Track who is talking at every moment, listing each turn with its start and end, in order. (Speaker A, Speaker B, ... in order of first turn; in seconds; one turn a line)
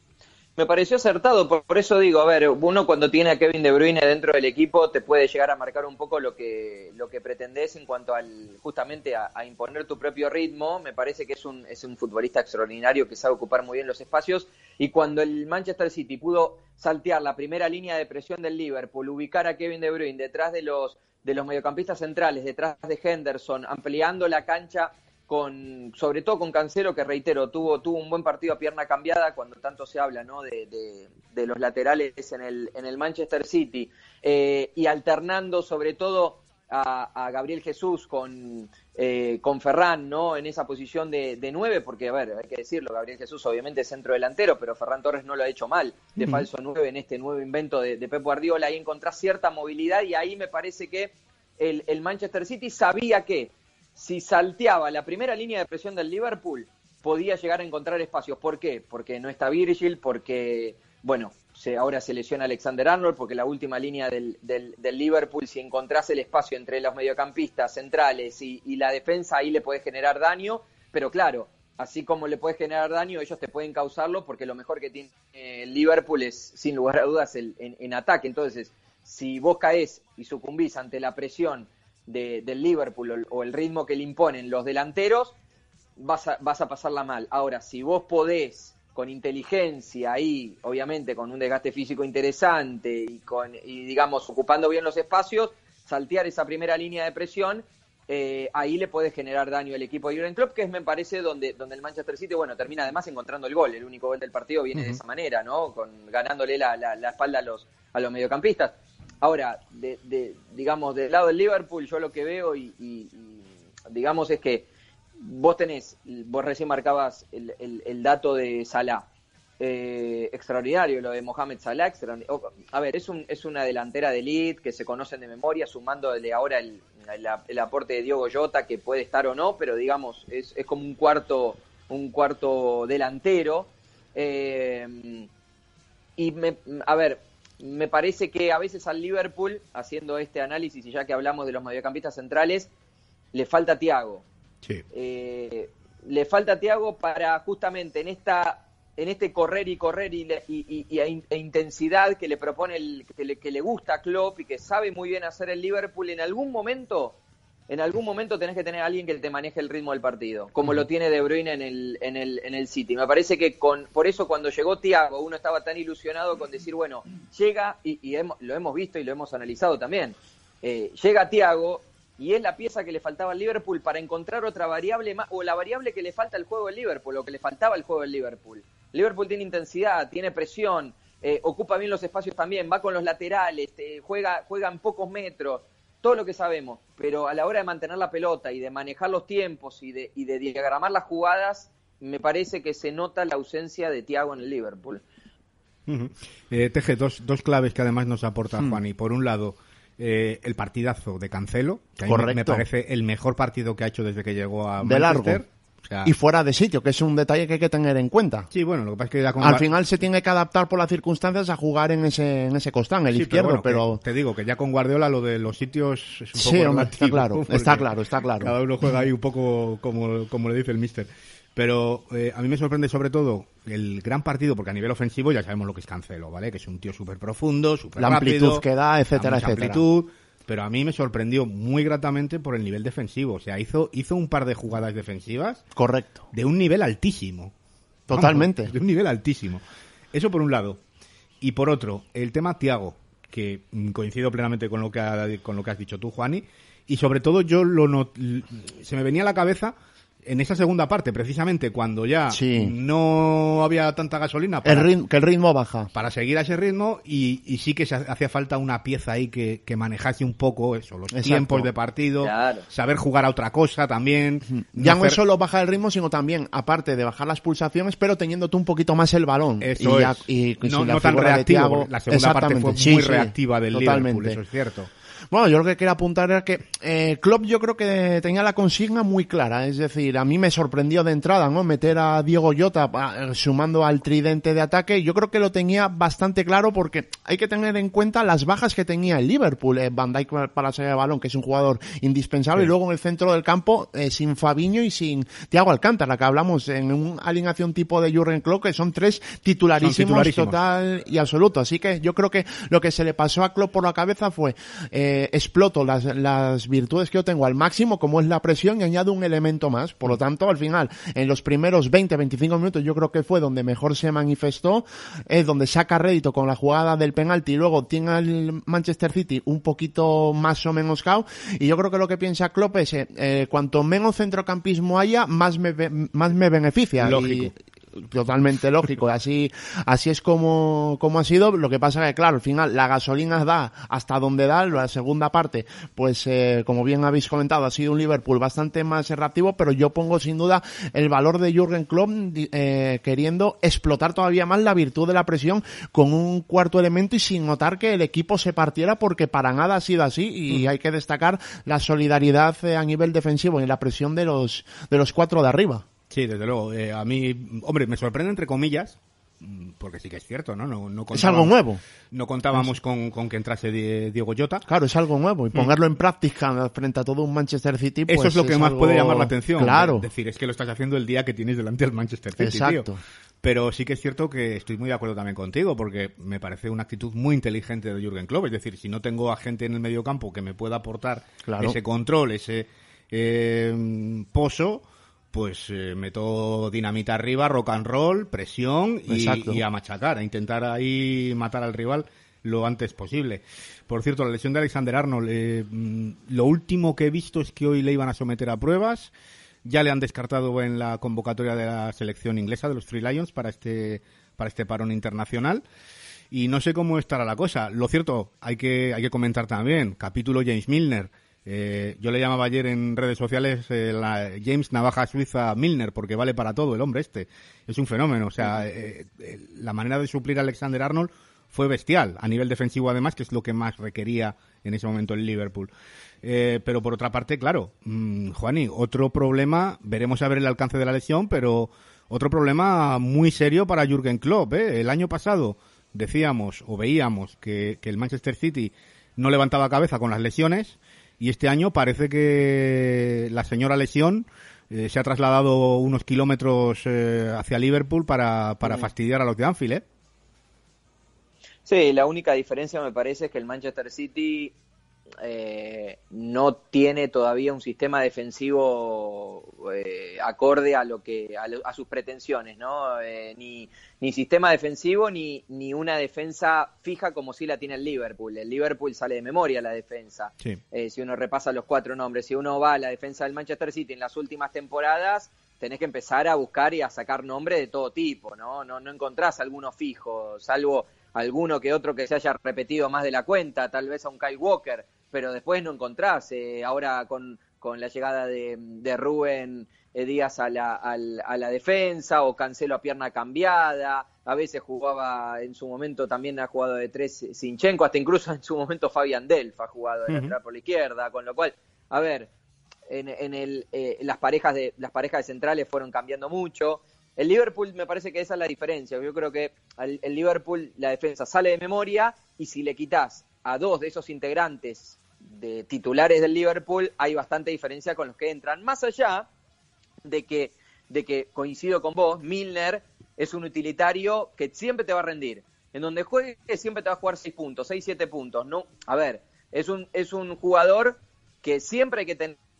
Speaker A: 0.6-85.3
Speaker A: 86.0-114.7
Speaker A: 115.2-119.0
Speaker A: 119.6-135.3
Speaker A: 136.2-142.7
Speaker A: 143.3-144.2
Speaker A: 144.9-157.2
Speaker A: 157.7-195.0
Speaker B: 195.9-206.1
Speaker C: 202.0-202.6
Speaker C: 204.8-205.4
Speaker C: 206.0-208.5
Speaker B: 208.5-209.7
Speaker C: 209.4-214.0
Speaker B: 213.1-235.6
Speaker C: 216.3-218.6
Speaker C: 228.0-229.8
Speaker C: 235.8-236.2
Speaker B: 236.3-237.5
Speaker C: 238.1-238.7
Speaker B: 238.1-239.6
Speaker B: 240.1-240.8
Speaker B: 241.4-249.7
Speaker B: 250.2-254.9
Speaker C: 252.3-252.7
Speaker C: 254.6-255.9
Speaker B: 255.9-265.2
Speaker C: 261.1-261.7
Speaker A: 262.2-262.6
Speaker C: 264.5-274.4
Speaker B: 269.6-274.9
Speaker C: 275.3-355.8
Speaker B: 299.8-300.6
Speaker B: 327.0-327.5
Speaker B: 356.1-361.5
Speaker C: 361.1-361.8
Speaker B: 362.1-364.6
Speaker C: 364.7-370.1
Speaker B: 368.1-372.9
Speaker C: 372.4-373.0
Speaker B: 373.4-399.1
Speaker C: 381.4-381.8
Speaker C: 389.1-389.6
Speaker B: 399.6-405.6
Speaker B: 406.3-425.7
Speaker B: 426.2-449.8
Speaker A: 451.6-454.5
Speaker A: 455.2-502.3
Speaker A: 502.9-519.3
Speaker A: 520.0-532.4